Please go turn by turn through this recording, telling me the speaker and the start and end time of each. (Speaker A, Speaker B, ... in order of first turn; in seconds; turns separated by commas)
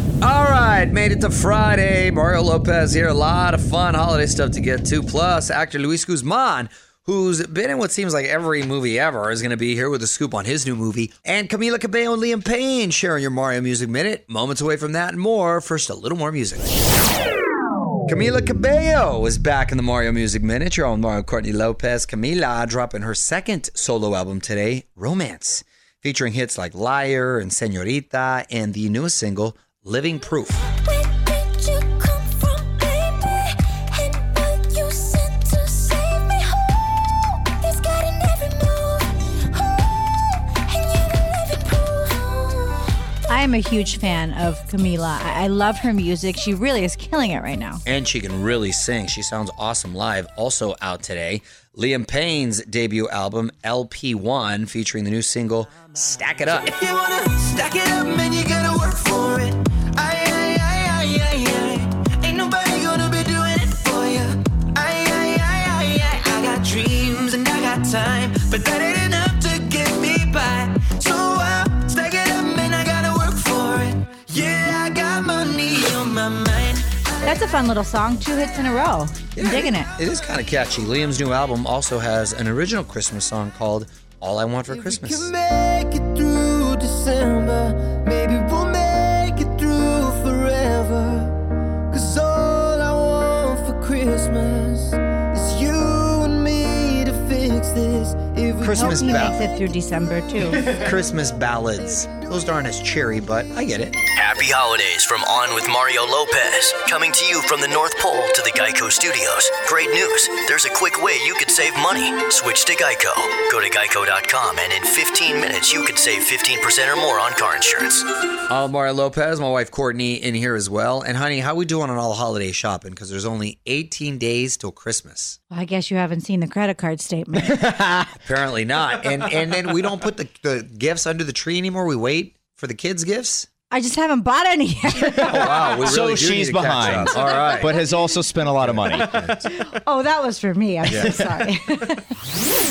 Speaker A: 0.2-16.7, Speaker A: 18.1-30.7, Speaker B: 30.8-36.6, Speaker B: 37.6-39.8, Speaker B: 40.6-42.8, Speaker C: 43.3-47.8, Speaker A: 47.9-56.8, Speaker D: 56.7-77.2, Speaker C: 77.2-79.9, Speaker A: 79.4-85.3, Speaker D: 84.7-91.4, Speaker D: 91.9-99.4, Speaker A: 98.6-99.4, Speaker C: 98.6-100.7, Speaker A: 100.5-104.0, Speaker E: 104.2-118.1, Speaker A: 118.5-125.4, Speaker C: 125.5-127.6, Speaker A: 127.6-133.5, Speaker C: 133.7-135.9, Speaker A: 135.2-137.8, Speaker F: 135.4-139.2, Speaker C: 137.3-137.9, Speaker A: 138.6-139.5, Speaker C: 139.5-142.1, Speaker A: 140.9-141.2